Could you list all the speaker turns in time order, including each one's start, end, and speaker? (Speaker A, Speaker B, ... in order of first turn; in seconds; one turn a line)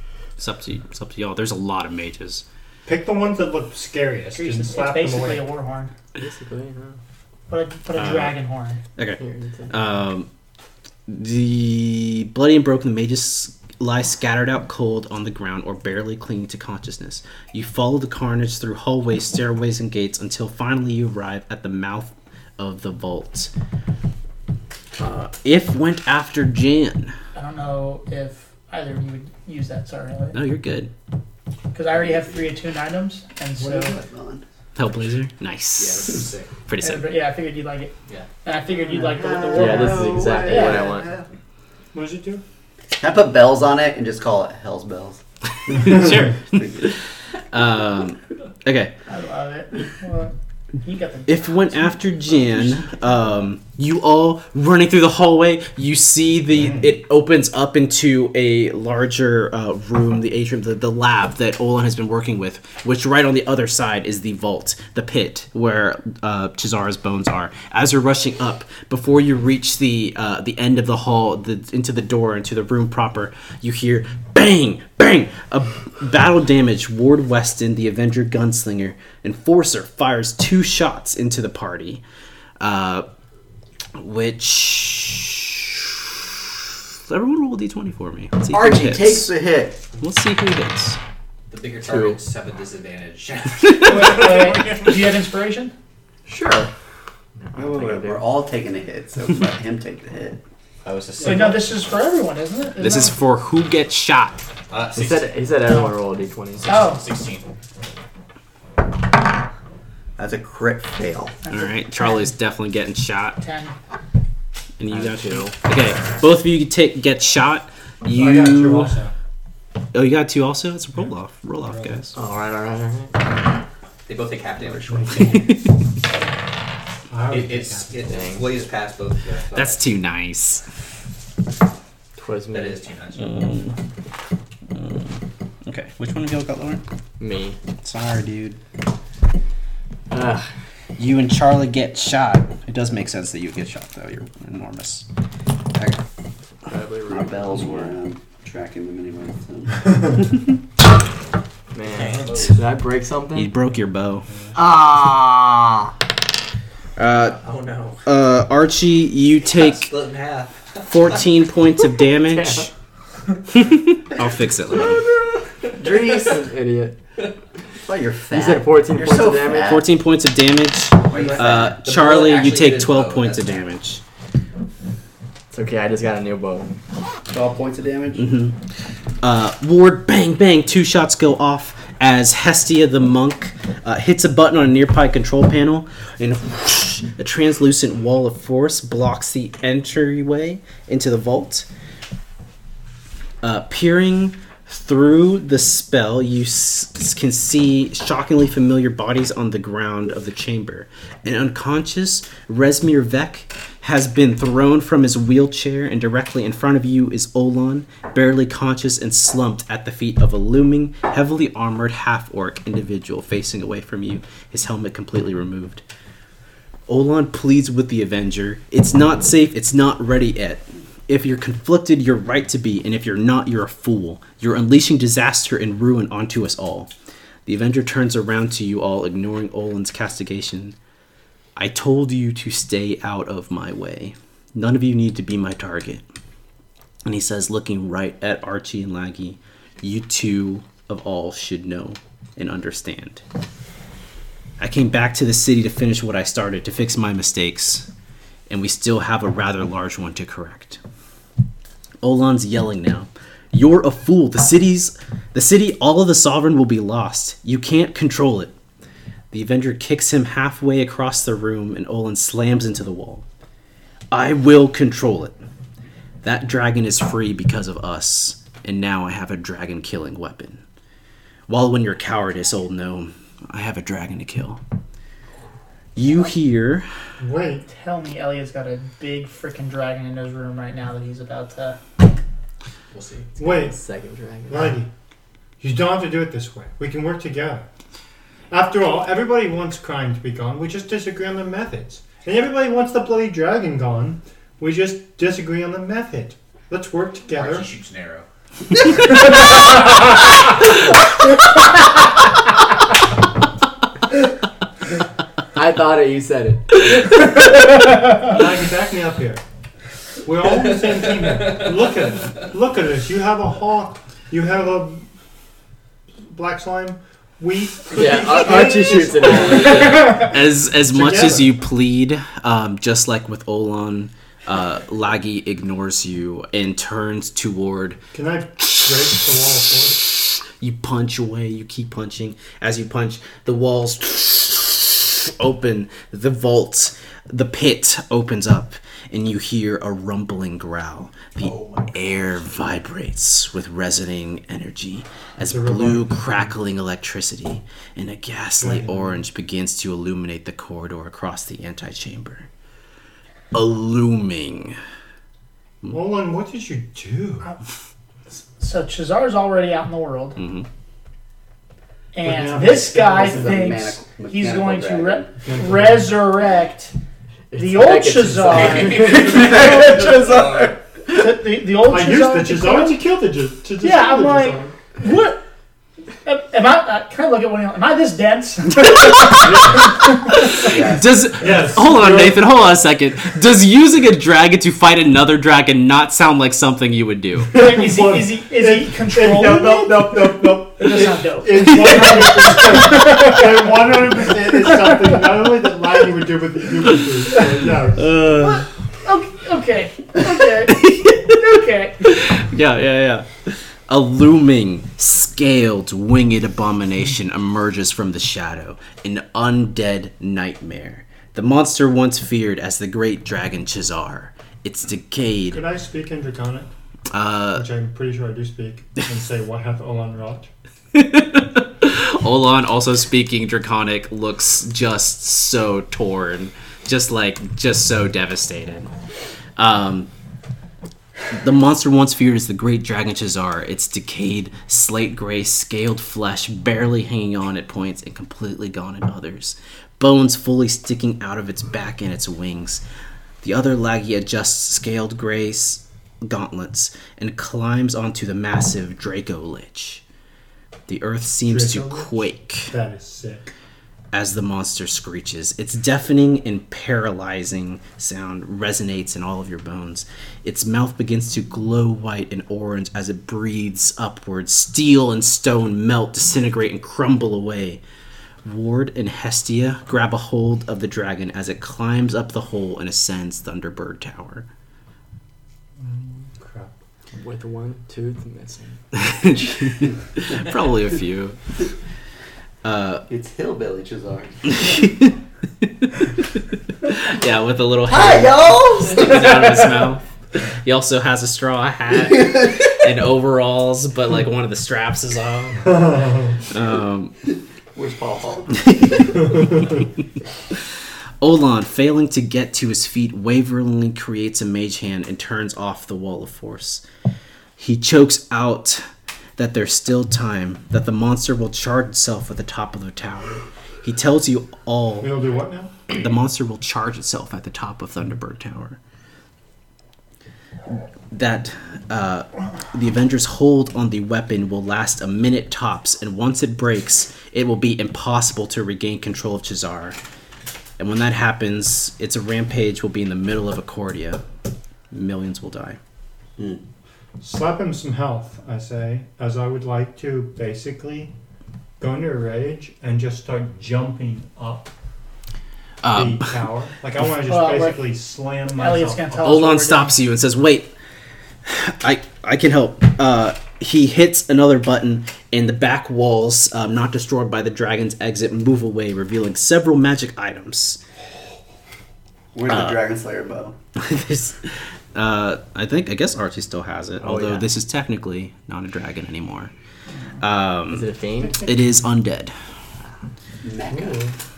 Speaker A: 0.4-2.4
Speaker B: 2.9-5.5
Speaker C: 4.3-5.9
Speaker D: 6.2-7.0
Speaker C: 7.5-8.8
Speaker A: 8.0-8.4
Speaker A: 9.0-10.3
Speaker D: 9.2-9.7
Speaker A: 11.1-23.5
Speaker A: 25.0-27.1
Speaker C: 27.4-30.4
Speaker A: 30.3-30.9
Speaker C: 31.7-34.0
Speaker E: 32.0-32.4
Speaker F: 33.6-34.4
Speaker A: 34.8-37.1
Speaker E: 35.8-36.5
Speaker C: 36.8-37.9
Speaker C: 38.4-40.9
Speaker F: 38.9-41.3
Speaker D: 39.5-41.1
Speaker B: 41.9-42.4
Speaker F: 43.0-46.0
Speaker A: 45.6-47.0
Speaker A: 47.5-48.9
Speaker C: 49.1-51.5
Speaker A: 51.3-82.0
Speaker A: 82.6-83.1
Speaker A: 84.0-89.3
Speaker F: 88.5-89.8
Speaker A: 90.0-91.0
Speaker E: 91.5-94.8
Speaker D: 91.8-92.2
Speaker C: 93.8-95.7
Speaker B: 94.0-94.5
Speaker D: 96.3-96.7
Speaker D: 97.5-98.3
Speaker F: 97.5-100.4
Speaker E: 100.8-101.6
Speaker B: 101.2-101.5
Speaker C: 101.2-103.2
Speaker A: 102.8-104.4
Speaker E: 104.7-105.3
Speaker D: 105.0-106.8
Speaker C: 105.7-105.9
Speaker E: 106.6-107.5
Speaker C: 106.7-107.0
Speaker F: 110.2-111.4
Speaker C: 111.4-112.3
Speaker A: 111.5-113.4
Speaker C: 113.4-113.7
Speaker A: 114.8-119.0
Speaker D: 114.9-115.5
Speaker B: 118.1-119.1
Speaker A: 119.9-122.1
Speaker B: 121.7-122.0
Speaker D: 122.1-123.3
Speaker E: 124.1-125.4
Speaker A: 125.2-125.6
Speaker B: 127.1-128.0
Speaker E: 127.3-129.8
Speaker D: 128.0-128.5
Speaker A: 129.6-130.6
Speaker D: 132.2-132.8
Speaker E: 132.5-133.5
Speaker A: 133.2-133.8
Speaker A: 134.7-136.8
Speaker D: 137.2-137.6
Speaker A: 137.8-138.6
Speaker D: 140.1-140.5
Speaker A: 141.0-145.1
Speaker D: 146.7-148.0
Speaker F: 147.1-150.2
Speaker D: 151.7-153.5
Speaker E: 151.9-152.6
Speaker A: 153.3-154.3
Speaker F: 154.7-155.6
Speaker A: 157.0-157.4
Speaker E: 157.1-158.1
Speaker A: 158.1-159.9
Speaker E: 159.4-161.2
Speaker A: 160.8-162.7
Speaker D: 162.2-162.7
Speaker A: 163.5-165.0
Speaker D: 165.8-167.0
Speaker F: 165.8-166.3
Speaker F: 167.9-169.8
Speaker D: 168.3-169.7
Speaker A: 169.6-174.0
Speaker F: 171.1-171.8
Speaker E: 171.1-173.7
Speaker D: 175.5-176.7
Speaker F: 177.3-178.3
Speaker A: 178.2-178.6
Speaker A: 179.2-191.7
Speaker A: 193.4-215.8
Speaker A: 216.9-226.9
Speaker A: 227.4-230.8
Speaker A: 231.6-236.0
Speaker A: 237.1-243.2
Speaker A: 244.6-247.9
Speaker A: 248.5-250.8
Speaker A: 252.0-258.5
Speaker A: 259.3-263.2
Speaker A: 264.1-265.4
Speaker A: 266.2-270.6
Speaker A: 271.5-274.6
Speaker A: 275.9-276.9
Speaker B: 277.2-277.7
Speaker C: 277.7-281.8
Speaker E: 282.9-283.3
Speaker B: 283.4-283.8
Speaker D: 283.4-284.8
Speaker B: 284.5-284.9
Speaker B: 285.6-287.6
Speaker B: 288.5-297.7
Speaker E: 297.3-298.3
Speaker D: 305.6-306.7
Speaker B: 308.1-309.4
Speaker B: 310.2-315.1
Speaker B: 316.3-321.5
Speaker D: 317.9-320.1
Speaker A: 319.8-328.0
Speaker B: 328.1-330.1
Speaker A: 328.6-329.2
Speaker A: 330.2-352.5
Speaker B: 345.5-346.5
Speaker B: 348.6-349.2
Speaker A: 353.5-354.8
Speaker B: 355.9-357.5
Speaker C: 358.6-360.4
Speaker A: 360.4-360.7
Speaker C: 362.1-366.9
Speaker B: 362.2-363.6
Speaker F: 363.0-365.4
Speaker B: 365.4-366.2
Speaker D: 367.5-369.7
Speaker C: 367.6-373.0
Speaker E: 368.5-370.8
Speaker B: 371.9-374.8
Speaker C: 373.8-375.4
Speaker C: 376.2-379.3
Speaker A: 378.8-387.5
Speaker F: 380.6-381.1
Speaker B: 381.4-382.4
Speaker B: 387.5-398.1
Speaker C: 387.5-393.1
Speaker A: 397.3-398.7
Speaker C: 398.4-402.0
Speaker A: 400.7-401.4
Speaker A: 402.0-415.6
Speaker B: 415.5-416.7
Speaker A: 417.1-417.6
Speaker B: 417.5-420.5
Speaker A: 420.9-428.9
Speaker A: 429.6-430.1
Speaker A: 431.3-442.8
Speaker A: 443.4-450.0
Speaker A: 450.9-452.7
Speaker B: 451.4-453.5
Speaker A: 454.1-467.8
Speaker A: 468.4-474.4
Speaker B: 475.8-476.7
Speaker D: 477.1-478.8
Speaker A: 478.9-481.4
Speaker A: 482.6-483.1
Speaker F: 483.1-484.4
Speaker A: 484.5-497.1
Speaker F: 487.9-489.7
Speaker F: 491.9-492.7
Speaker B: 495.6-496.4
Speaker F: 497.8-498.7
Speaker A: 498.5-499.7
Speaker A: 501.2-506.8
Speaker A: 507.6-508.8
Speaker A: 509.4-515.2
Speaker B: 515.0-515.8
Speaker A: 515.9-518.8
Speaker A: 520.7-530.0
Speaker A: 530.8-534.2
Speaker A: 534.9-535.8
Speaker B: 537.2-541.1
Speaker B: 541.8-544.7
Speaker A: 545.8-546.4
Speaker B: 545.9-549.2
Speaker C: 547.2-548.0
Speaker C: 548.5-549.9
Speaker A: 549.2-550.7
Speaker A: 551.5-560.8
Speaker F: 562.4-563.6
Speaker A: 562.5-562.8
Speaker A: 563.8-569.5
Speaker D: 567.0-567.5
Speaker A: 570.2-570.9
Speaker D: 570.7-571.5
Speaker A: 571.4-572.3
Speaker F: 573.4-574.0
Speaker B: 573.7-574.1